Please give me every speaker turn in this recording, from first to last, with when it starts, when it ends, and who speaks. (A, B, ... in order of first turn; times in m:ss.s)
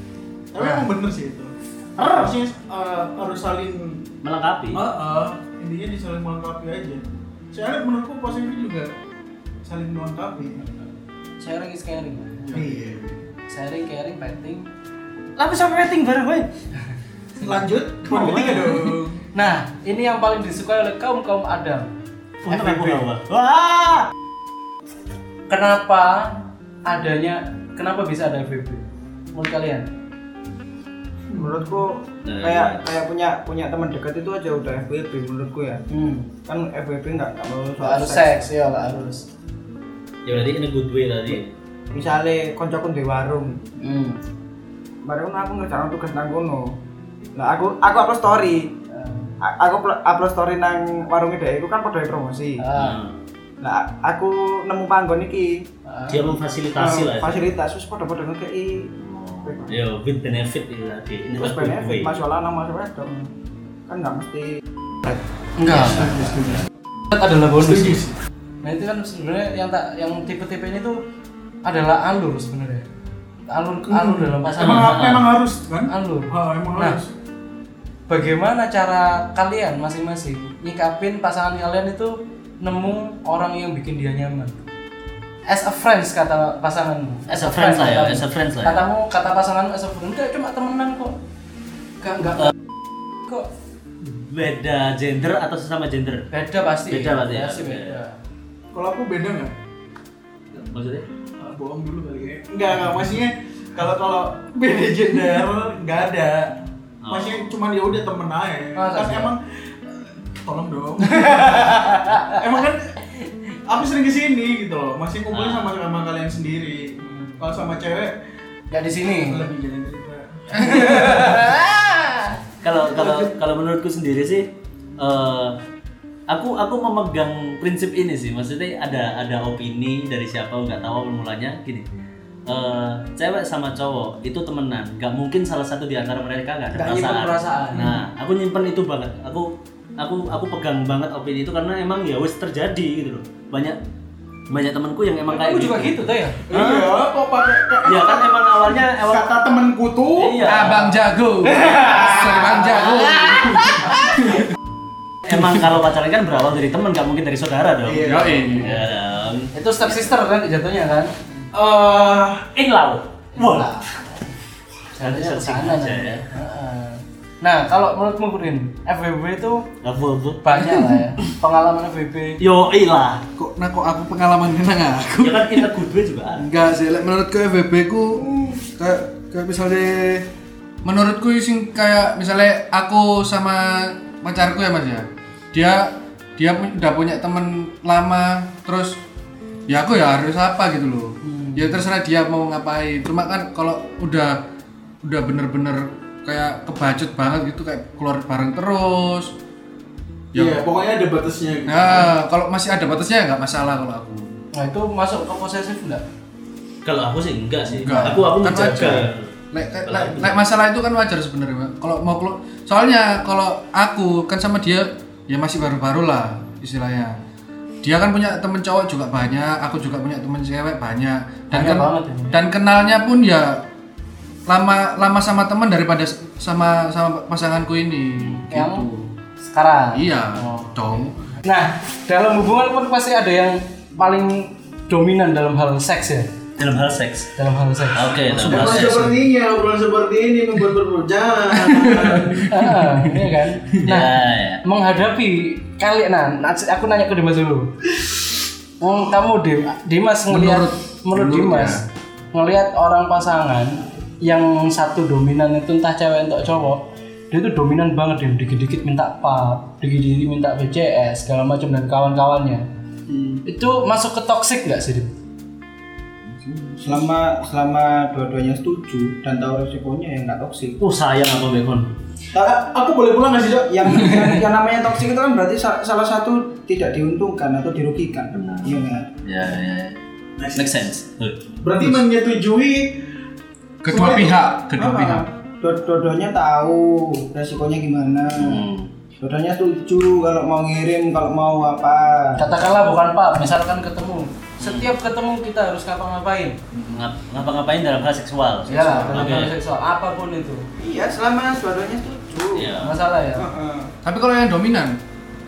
0:00.5-0:04.0 A
0:02.0-0:02.4 B
0:04.2-0:04.8 B
0:04.7-0:07.0 A
0:07.5-0:08.9 A
0:09.6-0:10.7 A
0:11.4-0:12.5 C
0:12.5-0:12.9 D
0:12.5-0:13.2 A
0:13.5-0:14.7 C
0:15.4-0:16.5 B
0:17.4-0:19.2 A
0:18.1-0:19.0 B
0:19.3-0:21.9 C
0:22.4-0:24.1 B
0:22.5-0:22.9 C
0:25.5-0:29.8 C
0:31.3-0:31.6 A
0:31.3-0:35.8 E
0:32.2-0:32.8 B
0:35.9-0:36.3 C
0:36.4-0:38.6 E
0:37.8-0:39.2 C
0:40.2-0:41.5 B
0:41.9-0:43.6 E
0:43.8-0:44.2 C
0:45.0-0:46.7 E
0:47.4-0:48.7 E
0:48.9-0:49.3 C
0:49.4-0:52.6 E
0:52.6-0:53.0 C
0:52.7-0:53.1 B
0:53.6-0:55.6 E
0:55.8-0:56.2 C
0:56.1-0:57.5 B
0:56.7-0:58.9 E
0:59.0-1:02.2 B
0:59.4-0:59.8 E
1:01.3-1:03.3 E
1:03.9-1:04.5 E
1:05.6-1:06.4 C
1:05.7-1:06.4 B
1:05.7-1:06.6 A
1:07.1-1:08.0 C
1:07.6-1:08.1 A
1:08.6-1:11.0 C
1:11.6-1:12.9 C
1:13.5-1:15.1 C
1:13.9-1:17.1 A
1:14.6-1:15.2 B
1:15.9-1:17.0 C
1:18.1-1:24.6 C
1:25.5-1:31.1 C
1:27.3-1:28.8 B
1:32.0-1:32.5 C
1:34.0-1:36.3 B
1:36.3-1:38.2 C
1:36.9-1:38.0 B
1:38.7-1:39.5 A
1:40.5-1:41.0 B
1:41.4-1:46.5 A
1:47.0-1:47.5 B
1:47.1-1:52.9 A
1:48.8-1:49.3 C
1:51.0-1:52.4 C
1:53.6-1:58.1 A
1:55.3-1:55.7 B
1:58.7-1:59.5 C
1:59.1-2:01.5 A
2:00.5-2:02.4 C
2:02.6-2:04.4 B
2:02.9-2:03.3 C
2:05.0-2:05.6 B
2:06.3-2:11.8 B
2:12.5-2:23.8 B
2:16.7-2:18.0 C
2:24.5-2:25.9 B
2:25.3-2:26.4 C
2:26.5-2:30.6 A
2:26.5-2:26.9 B
2:27.8-2:29.4 B
2:30.2-2:31.0 B
2:30.4-2:34.4 D
2:31.4-2:34.2 C
2:35.2-2:40.1 B
2:37.8-2:38.6 A
2:38.0-2:38.8 D
2:39.5-2:41.1 C
2:41.5-2:42.5 A
2:42.6-2:43.9 B
2:43.3-2:44.0 C
2:44.9-2:49.7 C
2:45.0-2:46.2 B
2:49.8-2:50.4 B
2:50.4-2:52.4 C
2:50.6-2:51.0 D
2:52.4-2:53.2 B
2:53.4-2:55.7 D
2:55.2-2:56.4 B
2:56.4-3:00.2 D
3:00.8-3:09.0 D
3:09.7-3:14.4 D
3:11.2-3:11.7 C
3:15.0-3:19.3 D
3:20.3-3:20.6 D
3:20.3-3:22.2 A
3:21.7-3:24.4 D
3:24.5-3:26.0 C
3:26.8-3:29.3 B
3:27.7-3:37.2 D
3:29.8-3:30.4 B
3:37.8-3:43.6 D
3:41.5-3:42.4 C
3:44.5-3:49.1 D
3:48.5-3:48.9 C
3:49.4-3:56.3 C
3:49.9-3:51.2 D
3:56.6-3:57.3 B
3:57.4-3:58.2 C
3:57.9-3:59.1 B
3:58.3-3:59.1 D
3:58.5-4:02.5 A
4:01.6-4:03.3 D
4:02.5-4:07.7 C
4:03.8-4:04.6 B
4:08.8-4:22.6 C
4:10.3-4:11.8 D
4:23.1-4:23.4 E
4:23.4-4:25.1 C
4:26.4-4:30.8 E
4:30.8-4:31.9 B
4:32.4-4:34.4 A
4:33.7-4:39.1 E
4:38.3-4:40.0 B
4:40.4-4:40.7 A
4:40.5-4:41.5 B
4:41.6-4:43.0 A
4:43.8-4:45.2 D
4:43.9-4:44.3 A
4:44.7-4:48.6 E
4:48.4-4:48.9 B
4:49.2-4:52.5 E
4:52.4-4:56.6 C
4:54.6-4:54.9 B
4:56.7-4:57.1 D
4:56.9-4:59.5 B
4:58.7-5:00.7 C
5:00.8-5:02.8 E
5:02.5-5:03.0 B
5:02.8-5:03.4 C
5:03.3-5:03.9 E
5:04.0-5:05.0 D